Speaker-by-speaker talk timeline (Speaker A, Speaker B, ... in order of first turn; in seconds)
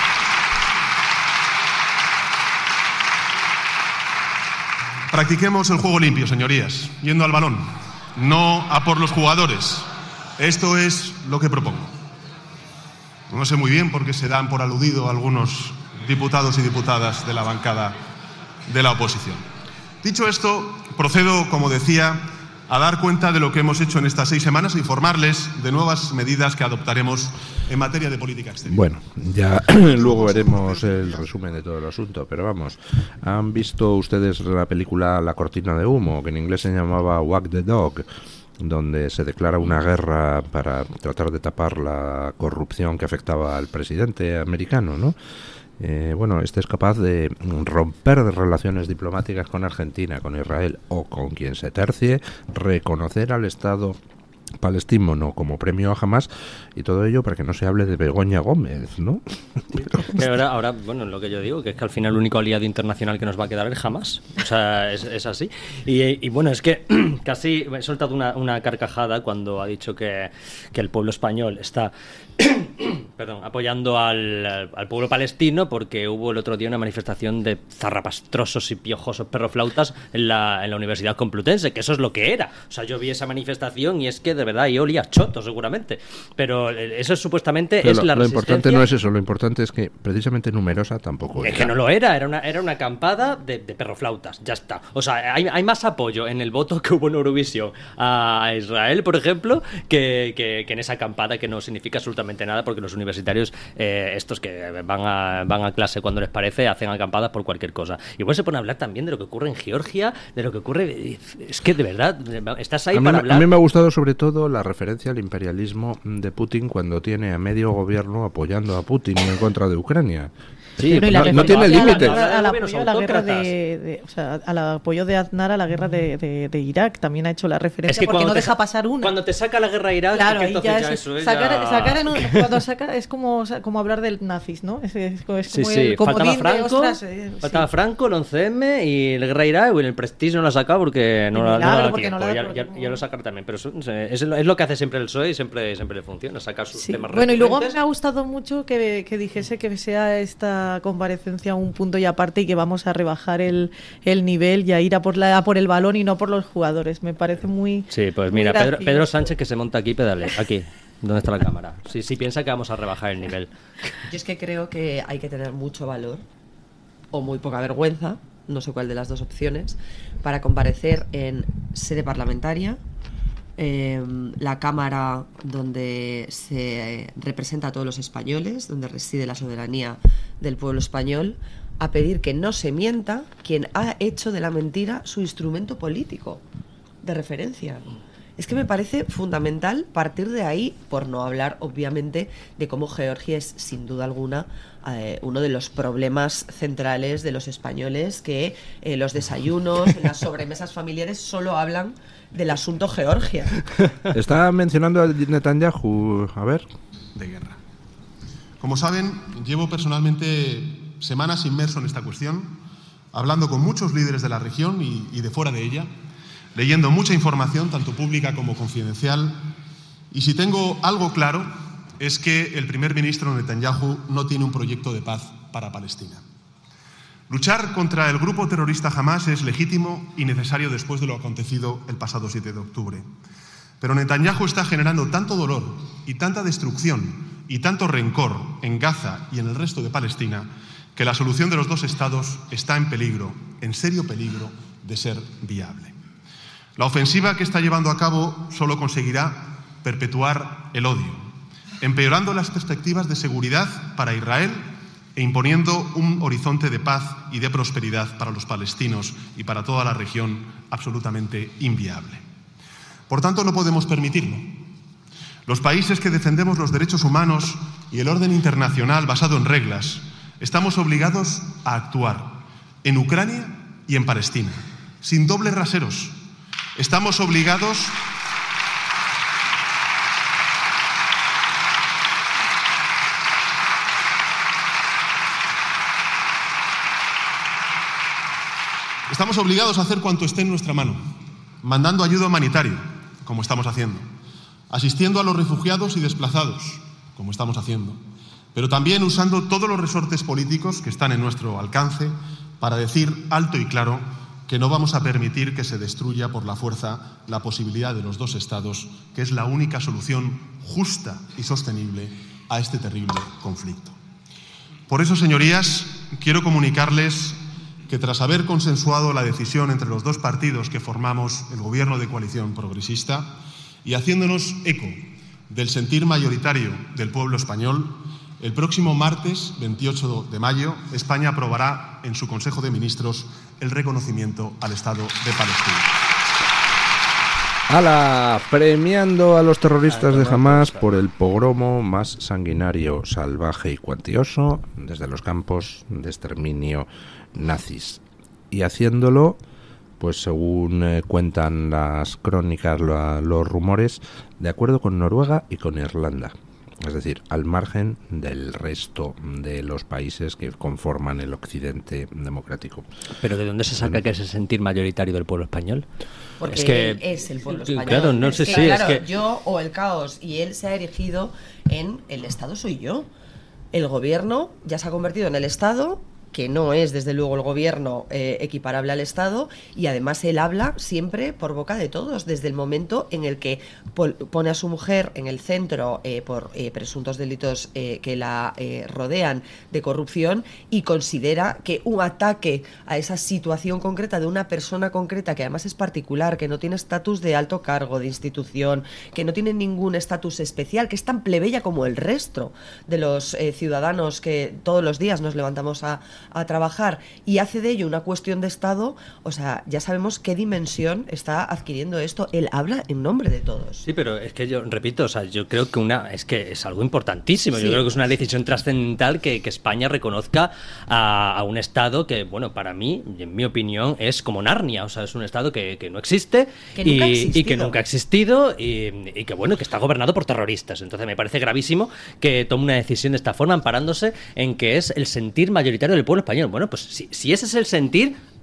Speaker A: 5.1-11.9, 13.3-18.0, 18.7-19.4, 20.0-28.9, 29.7-30.9, 207.2-207.6, 208.6-212.6, 213.1-215.9, 216.6-219.4, 220.1-226.2, 227.3-233.1, 233.8-245.9, 246.8-262.2, 263.1-264.6, 265.5-276.1, 276.8-278.1, 289.1-294.1, 294.7-298.0, 298.5-314.0, 314.9-323.3, 323.8-336.1
Speaker B: 28.7-38.0, 38.6-45.1, 45.8-54.0, 54.6-59.2, 87.8-91.7, 112.9-122.2, 204.1-206.7, 337.7-349.4, 350.0-362.9
Speaker C: 60.0-88.8, 91.4-113.5, 120.8-123.5, 127.9-132.5, 135.5-147.8, 157.9-163.5, 339.9-340.9, 363.2-365.9, 366.4-367.0, 367.6-369.0, 413.9-438.2
Speaker D: 120.9-129.2, 130.1-137.7, 141.3-143.0, 146.8-159.1
Speaker E: 164.1-166.2, 167.1-172.8, 173.6-186.4, 187.0-187.8, 188.4-203.6, 366.4-373.1, 373.7-413.9, 417.5-417.8, 426.8-427.8